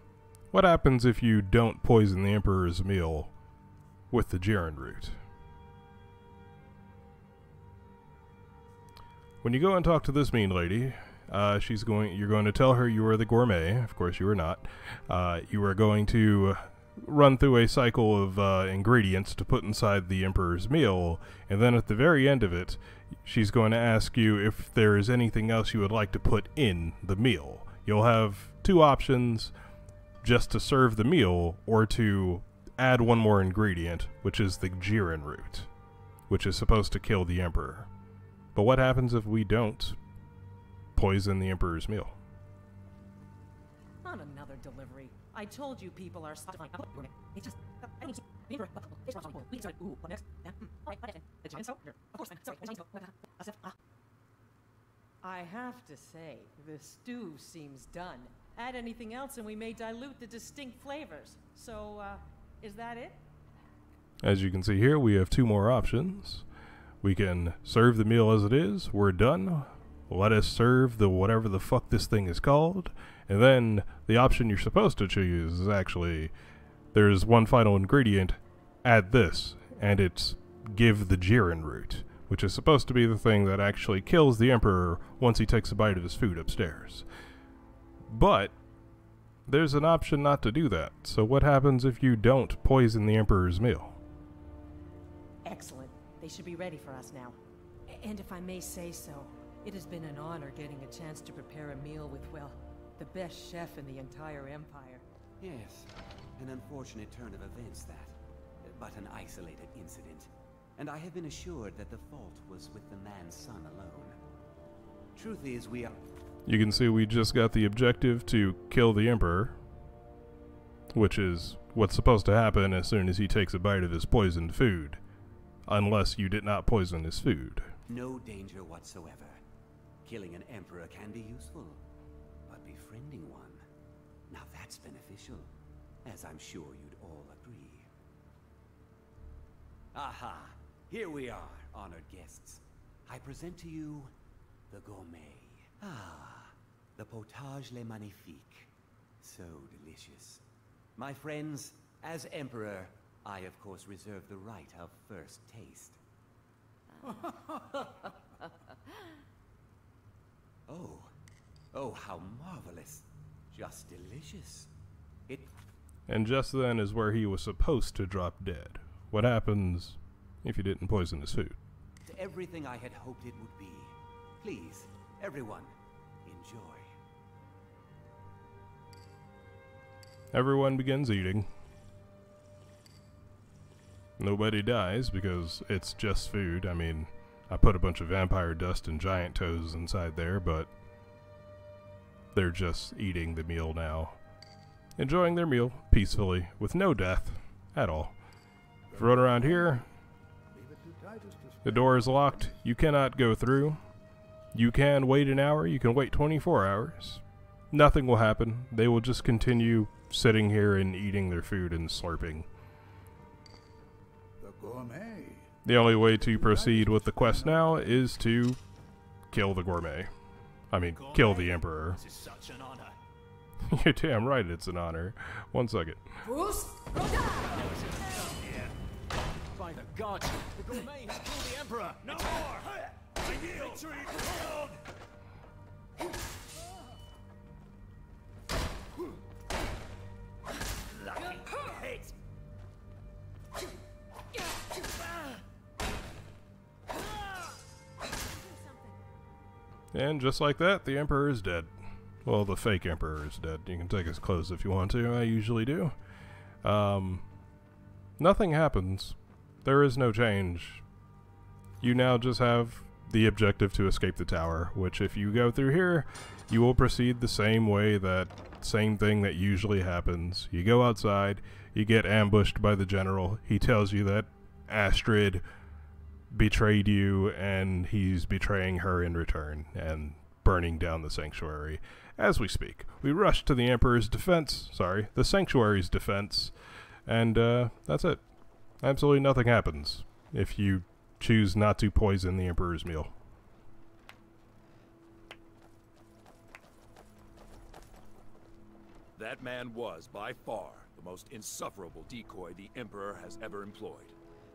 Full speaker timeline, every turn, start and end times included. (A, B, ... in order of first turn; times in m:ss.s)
0:00.5-0:03.3 A
0:04.1-0:05.2 A
0:09.4-0:29.5 A
0:30.2-0:35.7 A
0:36.3-0:37.9 A
0:38.5-0:40.0 A
0:41.0-0:42.1 A
0:44.0-0:53.7 B
0:55.2-1:03.2 B
1:04.2-1:06.4 A
1:07.0-1:16.3 A
1:16.9-1:27.0 A
1:28.1-1:28.5 A
1:29.5-1:34.0 A
1:35.4-1:45.0 B
1:45.4-1:54.2 C
1:55.1-1:56.0 C
1:56.4-1:59.6 A
2:00.9-2:05.0 A
2:05.7-2:07.7 A
2:07.9-2:09.4 C
2:10.0-2:11.8 C
2:12.5-2:13.6 C
2:14.3-2:15.5 C
2:16.0-2:17.9 C
2:19.9-2:24.1 C
2:24.7-2:30.4 C
2:31.0-2:36.0 C
2:40.7-2:41.1 C
2:41.7-2:44.7 C
2:45.3-2:45.5 C
2:46.1-2:51.6 A
2:52.0-2:55.7 C
2:56.2-2:56.9 C
3:00.3-3:01.5 A
3:04.2-3:10.7 A
3:12.3-3:14.2 A
3:15.0-3:18.1 A
3:18.9-3:19.8 D
3:18.9-3:19.8 A
3:20.5-3:22.4 D
3:21.6-3:23.8 A
3:24.5-3:32.5 A
3:34.4-3:35.5 D
3:35.6-3:38.6 A
3:36.1-3:37.7 D
3:39.3-3:40.1 A
3:40.7-3:42.0 A
3:41.1-3:41.5 E
3:42.0-3:42.9 E
3:43.6-3:46.0 A
3:46.4-3:47.4 B
3:47.5-3:48.7 E
3:49.6-3:54.7 E
4:01.2-4:01.9 B
4:08.3-4:08.9 B
4:09.9-4:11.7 A
4:12.2-4:15.9 A
4:16.6-4:17.2 A
4:18.2-4:20.8 A
4:21.8-4:35.4 A
4:36.3-4:46.5 A
4:47.0-4:48.2 A
4:48.8-4:53.1 A
4:59.2-5:04.2 E